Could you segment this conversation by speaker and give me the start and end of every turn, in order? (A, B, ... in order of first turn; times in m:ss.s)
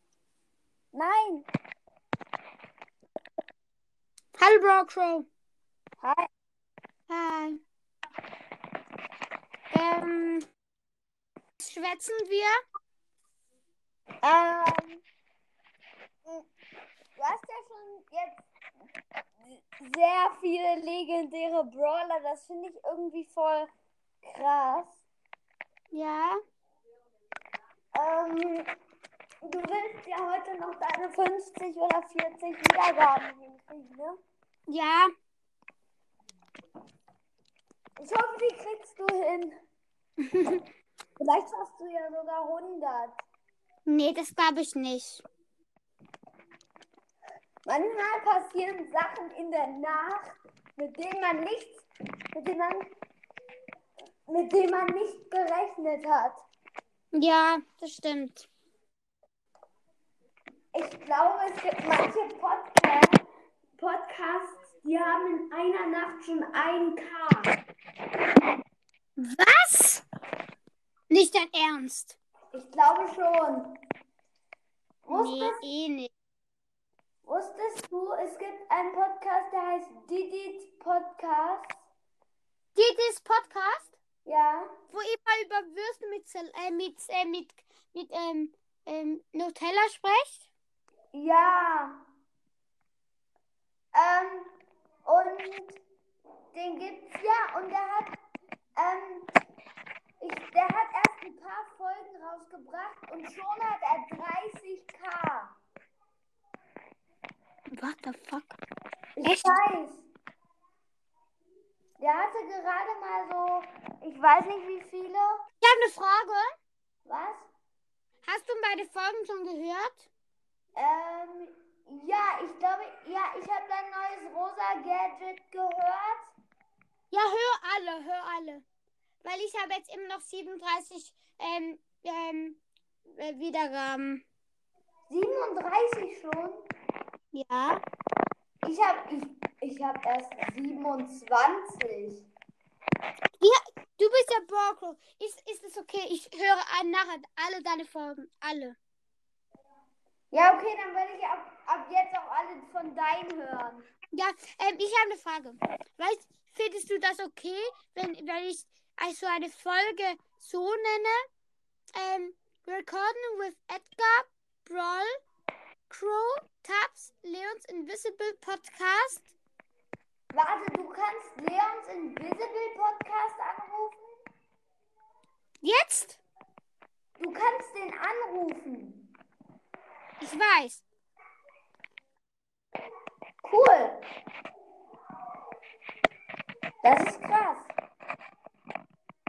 0:00.9-0:01.4 A
0:04.4-0:05.2 B
0:06.0-0:06.3 A
0:07.1-0:07.6 B
0:09.7-0:10.4 B
0:11.6-0:12.5 B
0:14.2-0:15.0 A
0:17.2-0:18.4 A
0:19.5-0:23.7 A
0:24.2-0:25.0 A
0:25.9-0:26.4 B
0:27.9-0:28.6 A
0:29.4-0:34.2 A
0:34.7-0:35.1 B
0:38.0-0:39.5 A
0:40.2-0:40.6 B
0:41.2-0:43.2 A
0:43.9-0:45.2 B
0:47.6-0:52.8 A
0:54.3-0:56.4 A
0:57.1-0:58.5 B
1:00.7-1:03.2 A
1:03.8-1:07.5 A
1:09.2-1:10.0 B
1:11.1-1:12.2 B
1:12.5-1:13.7 A
1:15.0-1:15.6 A
1:15.1-1:16.1 B
1:17.2-1:21.7 A
1:22.7-1:23.9 B
1:24.2-1:24.7 A
1:24.9-1:30.5 B
1:31.1-1:31.9 A
1:33.9-1:34.5 A
1:35.0-1:35.8 A
1:36.5-1:38.1 A
1:38.8-1:39.3 A
1:40.2-1:45.5 A
1:47.7-1:48.6 B
1:49.2-1:50.0 A
1:49.2-1:49.6 B
1:52.0-1:55.4 A
1:55.6-1:56.5 B
1:57.0-1:57.5 A
1:58.2-2:00.1 B
2:00.7-2:06.3 A
2:07.1-2:08.6 B
2:09.2-2:12.6 B
2:13.2-2:14.2 B
2:15.1-2:16.6 A
2:17.3-2:17.8 B
2:18.6-2:22.3 A
2:23.4-2:28.8 B
2:30.3-2:33.8 A
2:34.1-2:41.2 B
2:42.0-2:45.2 B
2:45.9-2:49.3 B
2:50.3-2:54.1 A
2:55.6-2:56.2 B
2:57.2-2:59.0 A
3:00.2-3:00.8 B
3:03.4-3:04.0 A
3:06.8-3:07.7 A